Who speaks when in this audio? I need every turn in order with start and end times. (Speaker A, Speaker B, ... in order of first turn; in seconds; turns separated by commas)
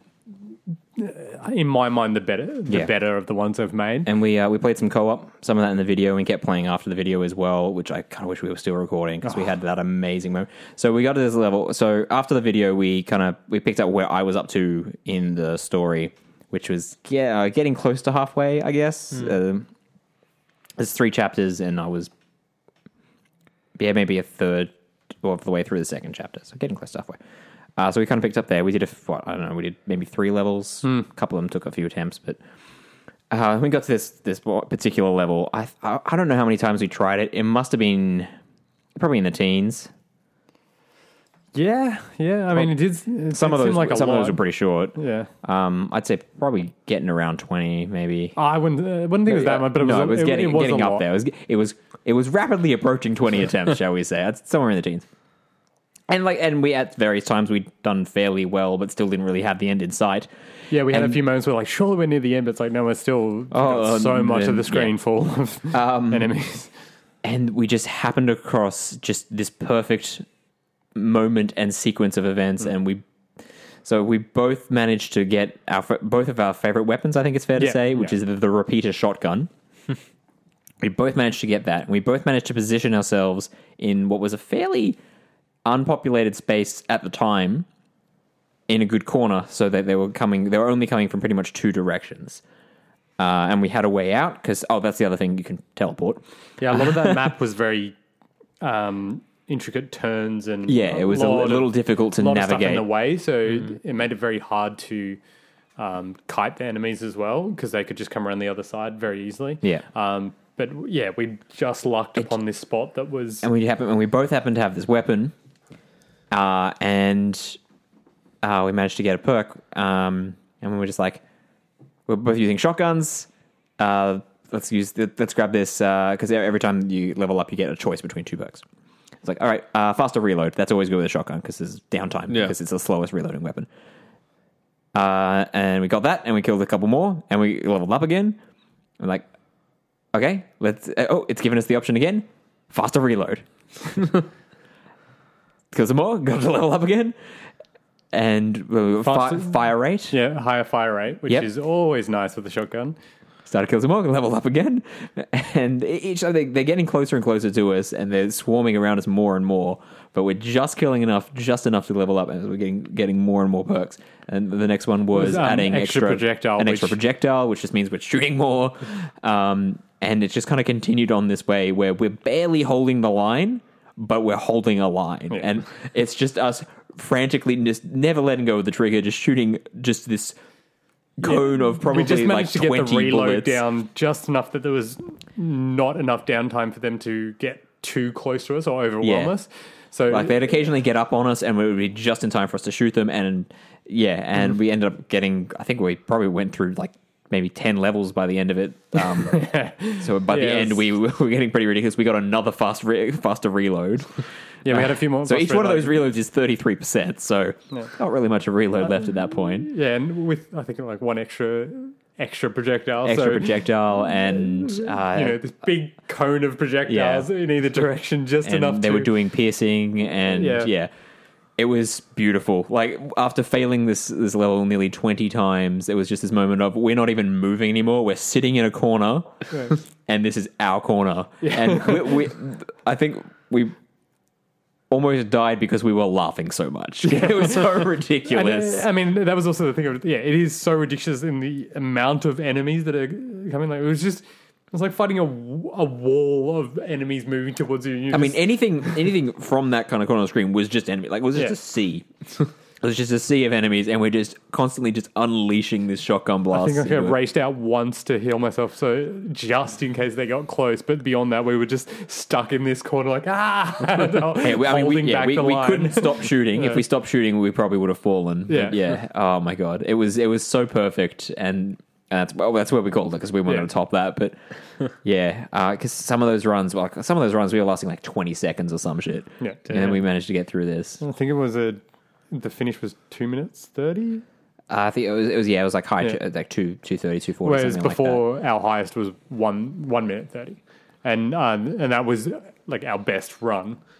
Speaker A: 0.9-4.1, Speaker B: 4.0-19.7, Speaker B: 20.8-22.1, Speaker B: 23.8-27.2, Speaker B: 27.8-32.4, Speaker B: 33.3-38.3, Speaker B: 39.0-39.9, Speaker A: 41.5-44.4, Speaker B: 43.3-48.4, Speaker A: 44.9-45.3, Speaker A: 48.4-51.0, Speaker B: 49.2-55.1, Speaker B: 56.1-60.3, Speaker A: 60.7-66.7, Speaker B: 60.9-61.2, Speaker B: 63.5-64.9, Speaker B: 65.7-66.3, Speaker B: 67.2-70.2, Speaker B: 70.9-73.0, Speaker B: 73.8-79.5, Speaker A: 77.6-78.1, Speaker B: 80.8-85.0, Speaker B: 85.6-87.7, Speaker B: 88.7-92.4, Speaker B: 93.2-97.1, Speaker A: 96.6-98.0, Speaker A: 98.6-105.2, Speaker B: 100.7-102.9, Speaker A: 105.8-113.5, Speaker B: 113.4-115.3, Speaker B: 116.3-117.6, Speaker B: 118.4-121.2, Speaker B: 122.1-123.3, Speaker B: 123.8-128.6, Speaker B: 129.2-133.7, Speaker B: 134.9-138.4, Speaker B: 139.0-139.3, Speaker B: 140.1-143.4, Speaker B: 145.7-147.2, Speaker B: 148.1-150.2, Speaker A: 149.0-149.6, Speaker A: 150.1-152.9, Speaker B: 153.4-180.4, Speaker A: 165.1-167.0, Speaker B: 181.2-183.6, Speaker A: 181.2-190.6, Speaker B: 189.0-189.3, Speaker B: 190.1-209.7, Speaker A: 199.3-200.8, Speaker A: 204.6-206.0, Speaker A: 209.6-213.6, Speaker B: 213.0-215.4, Speaker A: 214.6-219.1, Speaker B: 216.9-217.3, Speaker B: 218.4-220.9, Speaker A: 220.3-220.7, Speaker B: 221.6-233.8, Speaker A: 231.4-232.1, Speaker B: 234.9-238.8, Speaker A: 237.0-237.6, Speaker A: 238.2-248.5, Speaker B: 248.1-252.1, Speaker B: 252.8-257.2, Speaker A: 256.5-266.8, Speaker B: 264.4-274.4, Speaker A: 268.5-268.9, Speaker B: 275.0-281.0, Speaker A: 279.4-280.0, Speaker A: 281.0-284.2, Speaker B: 284.7-288.2, Speaker A: 287.4-293.8